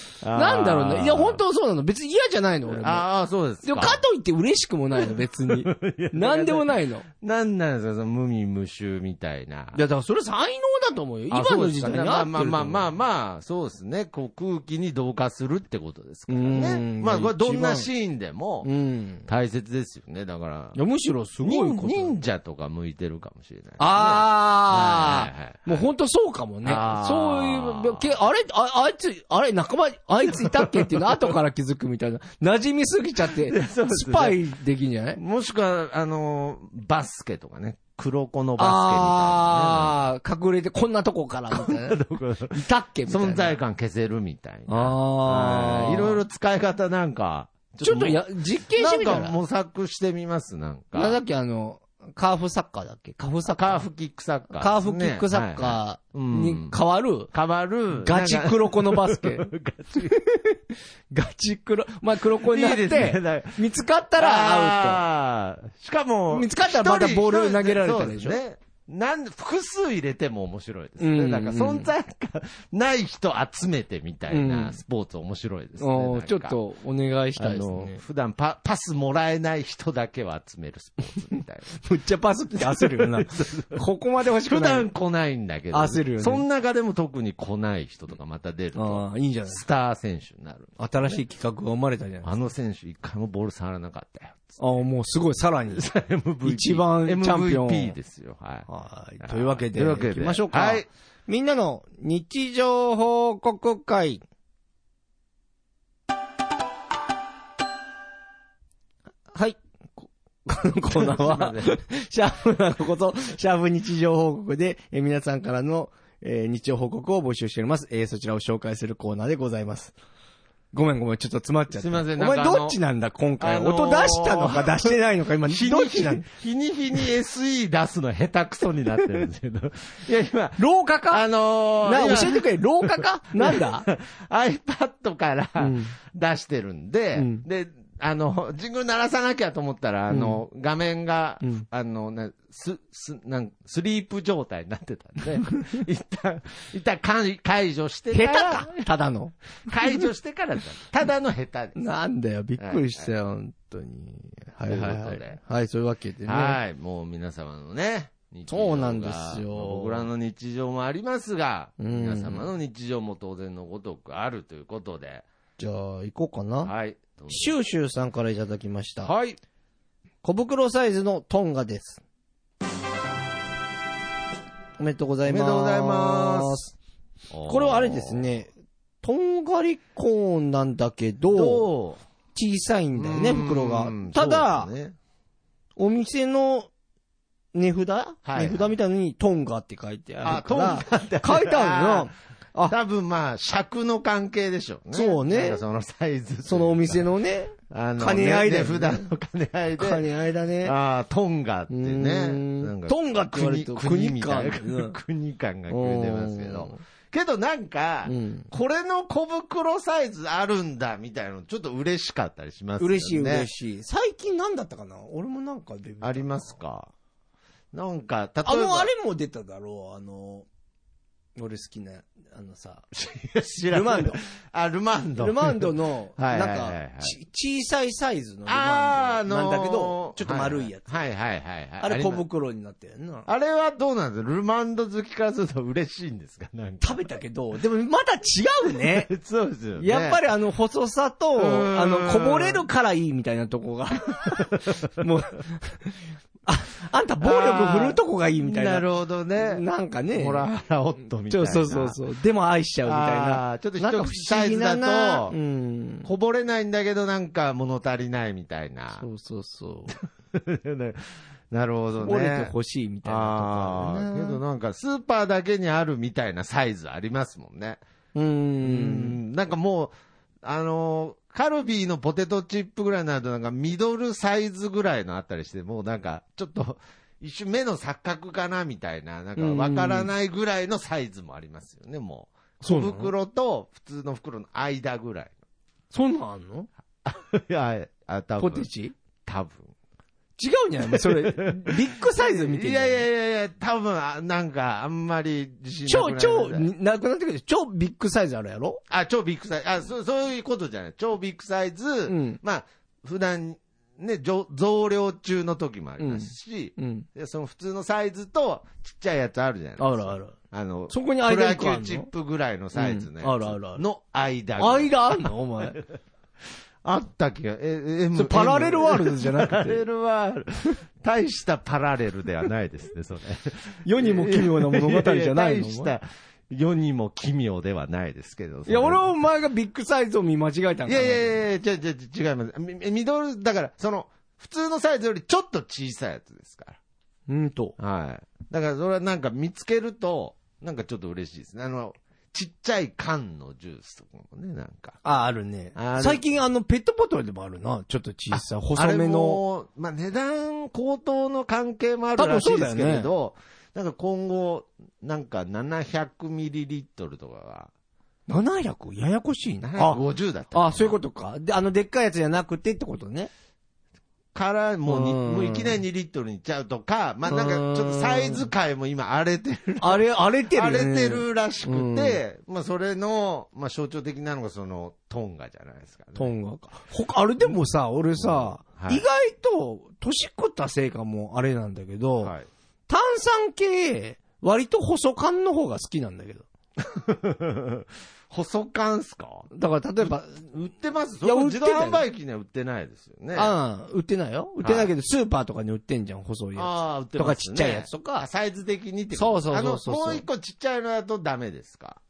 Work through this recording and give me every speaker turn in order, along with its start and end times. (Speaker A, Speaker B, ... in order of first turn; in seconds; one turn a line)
Speaker A: 0.2-1.4
Speaker B: 0.3-3.0
Speaker A: 2.7-4.0
Speaker B: 3.6-7.0
Speaker A: 5.0-9.8
Speaker B: 9.7-12.9
Speaker A: 11.3-18.7
Speaker B: 16.3-17.9
Speaker B: 18.6-19.2
Speaker A: 19.2-20.8
Speaker B: 20.7-22.1
Speaker A: 21.4-25.9
Speaker B: 23.8-35.2
Speaker A: 26.6-28.1
Speaker A: 30.3-31.3
Speaker A: 33.3-34.4
Speaker A: 35.2-39.9
Speaker B: 38.6-43.5
Speaker A: 41.5-51.2
Speaker B: 44.7-46.2
Speaker B: 47.8-49.3
Speaker B: 50.9-53.8
Speaker A: 53.5-56.8
Speaker B: 54.5-57.3
Speaker A: 57.3-60.2
Speaker B: 57.9-65.0
Speaker A: 62.3-76.6
Speaker B: 66.3-68.4
Speaker B: 71.0-71.9
Speaker B: 74.3-74.8
Speaker B: 75.8-78.0
Speaker A: 77.4-81.8
Speaker B: 81.7-84.9
Speaker A: 82.5-83.8
Speaker A: 84.5-91.2
Speaker B: 85.7-86.4
Speaker B: 88.7-89.6
Speaker B: 90.8-92.3
Speaker A: 92.2-94.6
Speaker B: 94.6-95.9
Speaker A: 95.7-98.7
Speaker B: 96.4-98.0
Speaker B: 98.7-104.2
Speaker A: 99.2-100.9
Speaker B: 109.3-119.9
Speaker A: 110.9-111.7
Speaker B: 120.7-126.2
Speaker A: 121.7-122.8
Speaker A: 123.4-148.8
Speaker B: 130.6-131.3
Speaker B: 131.8-133.9
Speaker B: 135.6-135.9
Speaker B: 137.1-137.4
Speaker B: 140.1-140.4
Speaker B: 148.1-150.1
Speaker A: 149.6-151.8
Speaker B: 151.8-156.6
Speaker A: 152.6-153.1
Speaker A: 154.7-155.4
Speaker A: 156.2-165.2
Speaker B: 158.5-160.1
Speaker B: 161.8-162.5
Speaker B: 165.6-166.7
Speaker A: 166.6-167.5
Speaker B: 167.3-169.1
Speaker A: 169.0-169.4
Speaker B: 170.2-172.0
Speaker B: 174.8-176.7
Speaker A: 175.2-176.6
Speaker A: 177.3-178.2
Speaker B: 177.4-178.5
Speaker B: 179.0-181.7
Speaker A: 181.3-182.0
Speaker B: 182.3-184.7
Speaker A: 182.9-184.9
Speaker B: 185.8-186.7
Speaker B: 187.5-192.8
Speaker A: 188.2-188.7
Speaker A: 190.2-192.1
Speaker A: 192.7-197.1
Speaker B: 194.9-195.6
Speaker B: 196.4-199.1
Speaker A: 197.7-200.1
Speaker B: 199.8-200.7
Speaker A: 200.6-213.5
Speaker B: 201.7-204.9
Speaker B: 205.7-206.8
Speaker B: 208.0-208.5
Speaker B: 212.8-216.5
Speaker A: 216.0-216.9
Speaker A: 217.7-218.9
Speaker B: 218.4-220.5
Speaker B: 221.3-222.9
Speaker A: 222.9-227.1
Speaker B: 223.7-224.2
Speaker B: 225.2-230.9
Speaker A: 228.5-232.2
Speaker B: 231.8-233.3
Speaker A: 233.2-237.1
Speaker B: 236.8-239.1
Speaker A: 238.8-240.2
Speaker B: 239.8-248.8
Speaker A: 241.4-242.6
Speaker A: 244.4-245.0
Speaker A: 247.2-249.6
Speaker B: 249.4-250.5
Speaker A: 250.1-252.0
Speaker B: 251.3-256.1
Speaker A: 252.8-255.3
Speaker A: 256.0-259.0
Speaker B: 259.0-259.9
Speaker A: 260.3-262.5
Speaker B: 262.0-264.4
Speaker A: 263.0-267.8
Speaker B: 268.1-269.2
Speaker A: 268.6-285.3
Speaker B: 279.4-280.1
Speaker B: 282.6-283.1
Speaker B: 285.9-286.7
Speaker A: 287.0-288.7
Speaker B: 288.4-288.9
Speaker A: 289.2-289.7
Speaker B: 290.4-293.0
Speaker A: 290.9-296.7
Speaker B: 295.8-298.8
Speaker A: 298.9-315.3
Speaker B: 302.1-302.4
Speaker B: 306.0-307.1
Speaker B: 309.8-310.4
Speaker B: 310.9-312.1
Speaker B: 312.7-313.8
Speaker B: 314.6-315.8
Speaker A: 316.8-329.1
Speaker B: 318.1-319.8
Speaker B: 323.8-325.9
Speaker B: 328.6-331.3
Speaker A: 330.9-336.8
Speaker B: 337.3-337.8
Speaker A: 337.8-345.0
Speaker B: 345.0-349.4
Speaker A: 345.7-346.2
Speaker A: 348.3-357.7
Speaker B: 352.2-353.1
Speaker B: 358.3-360.0
Speaker A: 359.6-360.9
Speaker B: 360.5-363.3
Speaker A: 364.3-376.3
Speaker B: 364.9-365.7
Speaker B: 367.2-368.5
Speaker B: 369.8-372.2
Speaker B: 376.1-382.3
Speaker A: 378.2-379.0
Speaker A: 382.2-382.5
Speaker B: 382.9-386.4
Speaker A: 386.8-389.5
Speaker B: 389.5-390.5
Speaker A: 390.0-393.5
Speaker B: 391.2-392.0
Speaker B: 393.3-398.2
Speaker A: 394.6-394.9
Speaker A: 396.5-402.0
Speaker B: 399.1-400.2